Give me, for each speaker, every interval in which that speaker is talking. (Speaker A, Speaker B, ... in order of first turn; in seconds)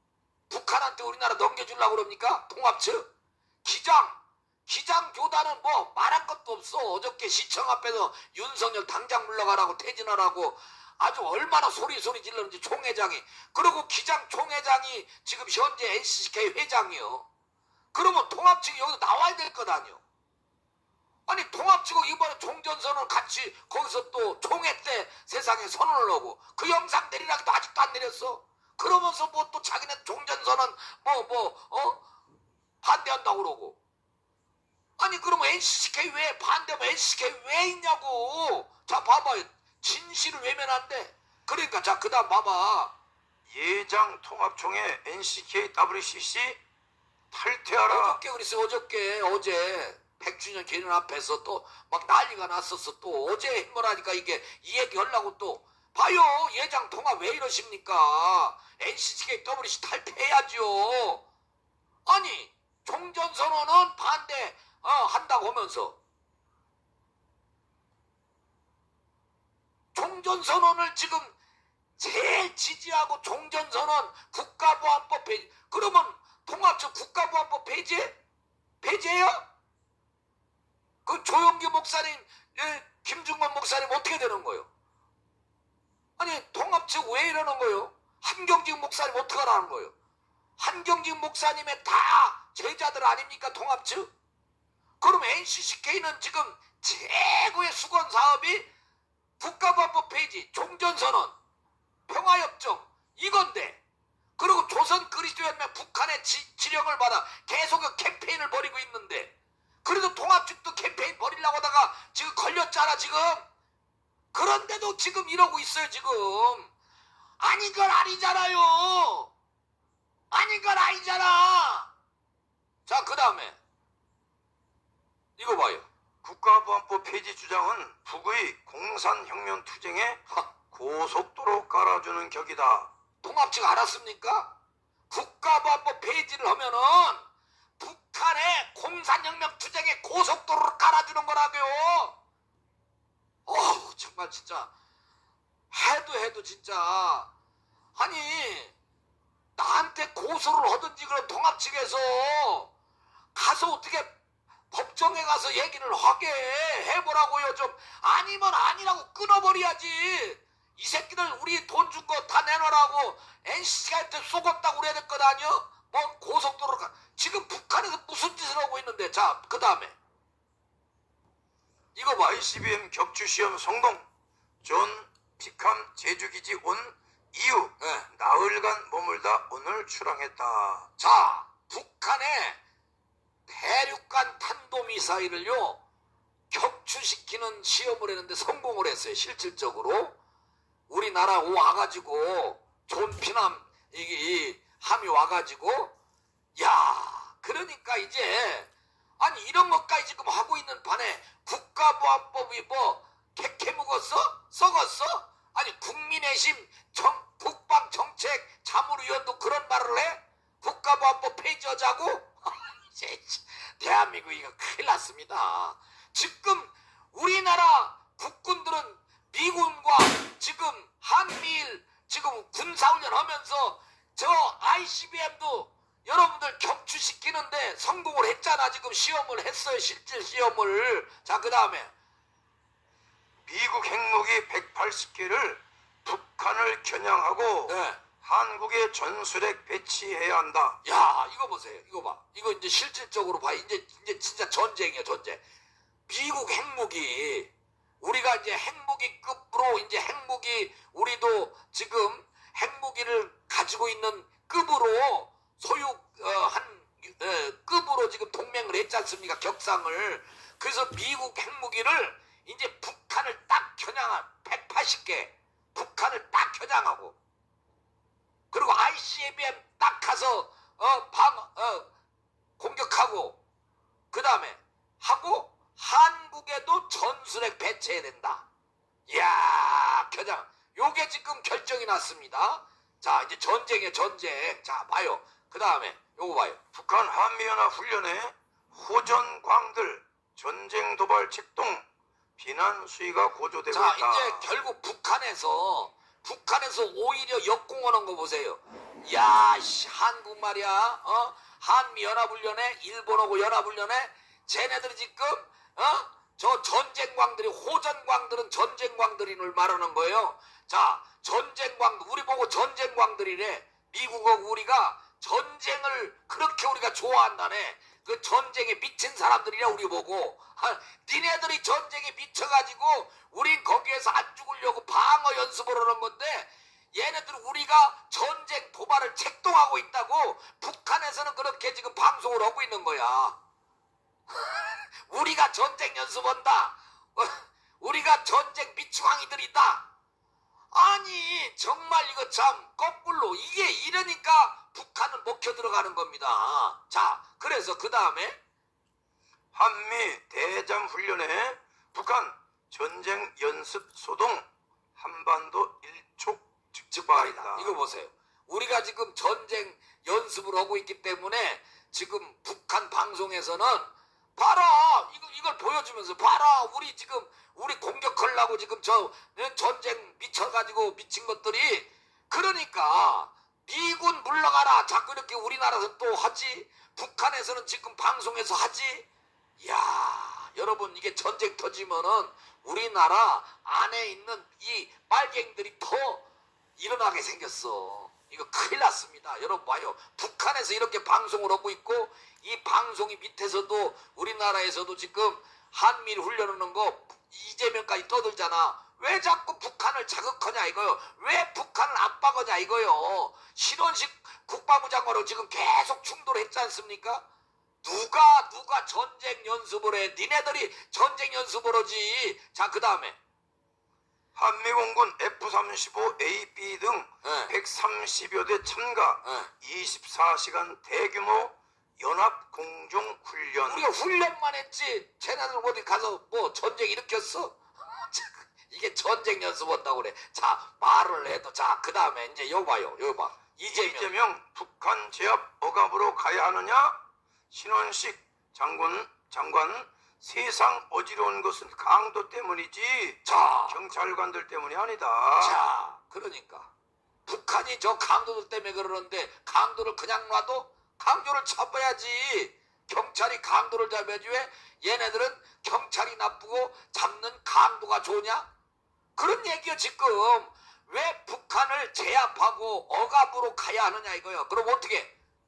Speaker A: 0.5-3.1, 3.6-17.3, 17.9-20.0, 21.3-32.0, 32.8-33.8, 35.0-42.9, 47.9-61.3, 62.1-66.0, 69.9-71.3, 72.0-78.2, 78.8-79.4, 81.1-84.7, 86.2-89.9, 90.6-94.1, 95.0-98.7, 99.4-101.3, 102.1-103.8, 104.4-109.3, 109.8-113.5, 114.3-116.7, 117.4-119.3, 120.3-121.9, 122.9-123.6, 125.4-125.9, 133.2-134.5, 135.1-137.2, 137.8-142.2, 143.5-144.7, 145.7-147.3, 148.0-148.8, 149.6-152.7, 153.3-154.2, 154.7-169.9, 171.9-172.5, 177.8-178.1, 181.0-182.6, 183.5-185.8, 186.5-190.2, 190.9-195.9, 196.6-231.9, 237.7-238.0, 240.8-245.4, 246.1-267.2, 268.5-271.9, 272.6-273.4, 274.1-278.5, 279.1-286.6, 293.7-333.4, 334.3-339.9, 340.7-348.4, 356.9-379.1, 379.6-386.2, 386.8-407.2, 407.8-413.2, 417.2-417.5, 419.2-419.5, 423.6-434.1, 443.2-443.8, 445.4-446.7, 447.3-458.5, 459.2-465.1
Speaker B: 43.5-46.6, 47.3-48.2, 126.2-132.9, 172.2-174.1, 174.6-180.9, 233.5-240.8, 286.7-291.9, 292.4-294.4, 349.5-357.8, 414.4-423.9, 433.7-437.0, 437.5-445.6